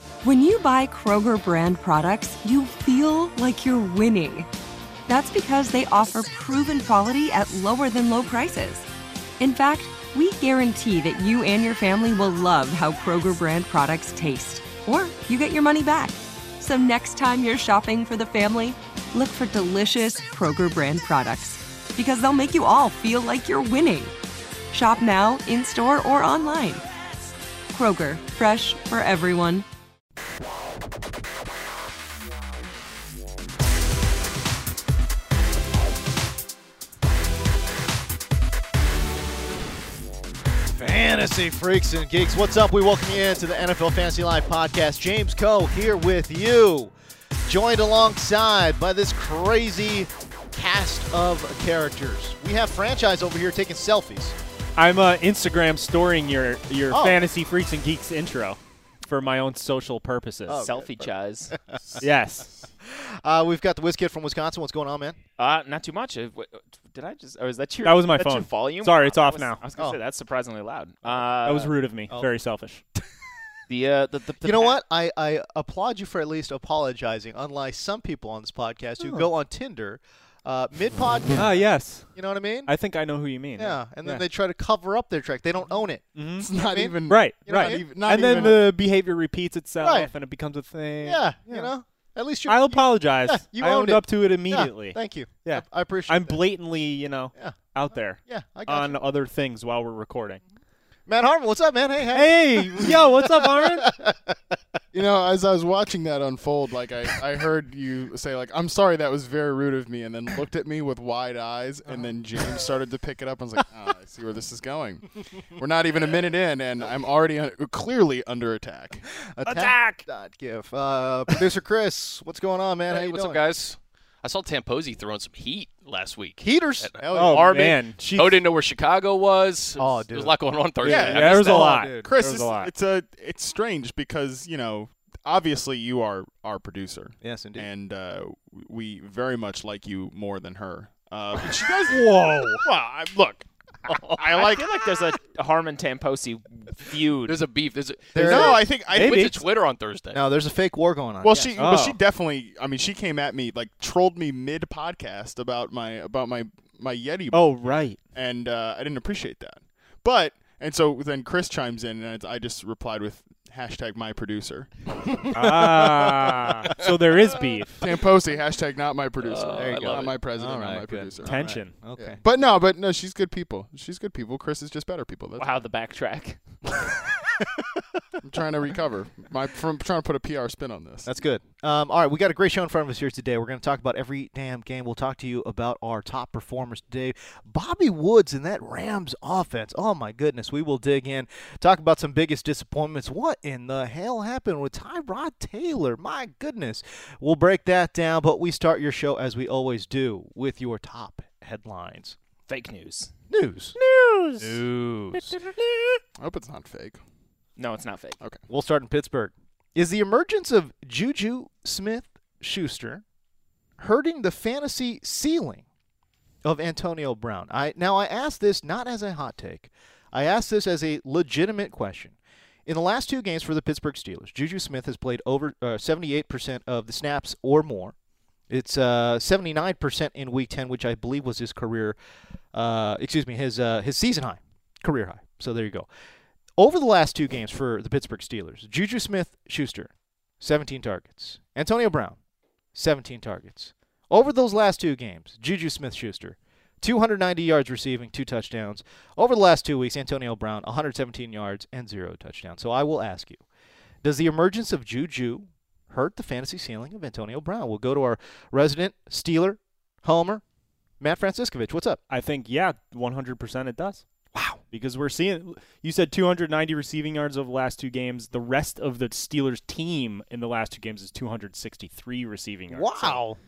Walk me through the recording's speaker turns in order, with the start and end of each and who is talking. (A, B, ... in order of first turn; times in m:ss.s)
0:00.2-0:04.5 A
0:05.1-0:08.8 A
0:09.4-0:24.1 A
0:24.7-0:26.8 A
0:27.7-0:29.6 A
0:40.7-0:46.9 B
0:47.4-0:54.4 B
0:54.8-1:00.7 C
0:56.9-0:57.2 B
1:00.5-1:01.1 B
1:00.6-1:01.6 D
1:02.0-1:02.5 C
1:02.8-1:05.2 B
1:05.4-1:11.7 D
1:07.8-1:09.6 C
1:11.4-1:12.8 C
1:13.7-1:14.8 D
1:14.4-1:22.7 B
1:19.0-1:19.3 C
1:21.3-1:22.1 C
1:22.7-1:24.2 C
1:23.6-1:28.6 B
1:26.1-1:26.5 C
1:26.4-1:28.6 E
1:27.1-1:31.7 C
1:29.8-1:30.1 B
1:31.0-1:36.4 B
1:32.5-1:40.4 C
1:38.3-1:39.0 B
1:41.1-1:44.6 B
1:42.1-1:43.9 C
1:44.9-1:59.0 E
1:51.8-1:52.6 B
1:59.3-2:03.4 B
2:02.9-2:11.8 F
2:06.4-2:07.6 B
2:07.1-2:07.6 E
2:07.1-2:08.4 C
2:09.8-2:12.1 B
2:10.8-2:23.4 E
2:10.9-2:12.7 C
2:17.2-2:17.7 B
2:22.0-2:22.5 B
2:23.9-2:24.2 B
2:24.1-2:24.7 E
2:24.4-2:27.4 D
2:27.2-2:30.3 F
2:28.1-2:29.4 B
2:28.2-2:29.2 E
2:30.1-2:31.5 B
2:31.2-2:37.5 E
2:31.6-2:32.0 C
2:37.3-2:38.0 C
2:38.1-2:44.7 E
2:45.3-2:47.8 C
2:45.3-2:46.4 B
2:46.8-2:47.4 F
2:47.8-2:51.4 E
2:49.2-2:50.2 F
2:49.5-2:52.2 B
2:51.2-2:51.8 C
2:52.0-2:55.5 E
2:55.4-2:56.4 D
2:57.4-2:57.6 B
2:58.2-3:01.1 E
3:01.0-3:22.2 B
3:22.5-3:23.1 D
3:23.3-3:23.7 B
3:23.8-3:24.6 C
3:24.4-3:25.4 B
3:25.1-3:25.4 C
3:26.2-3:27.0 E
3:27.6-3:28.2 D
3:28.5-3:33.0 B
3:33.8-3:35.6 B
3:36.4-3:47.9 B
3:48.5-3:52.0 B
3:52.5-3:55.9 B
3:56.6-4:02.2 B
4:02.7-4:13.4 B
4:14.0-4:20.4 B
4:21.0-4:22.0 B
4:22.1-4:24.0 C
4:24.3-4:24.6 B
4:24.7-4:33.2 C
4:32.7-4:33.4 B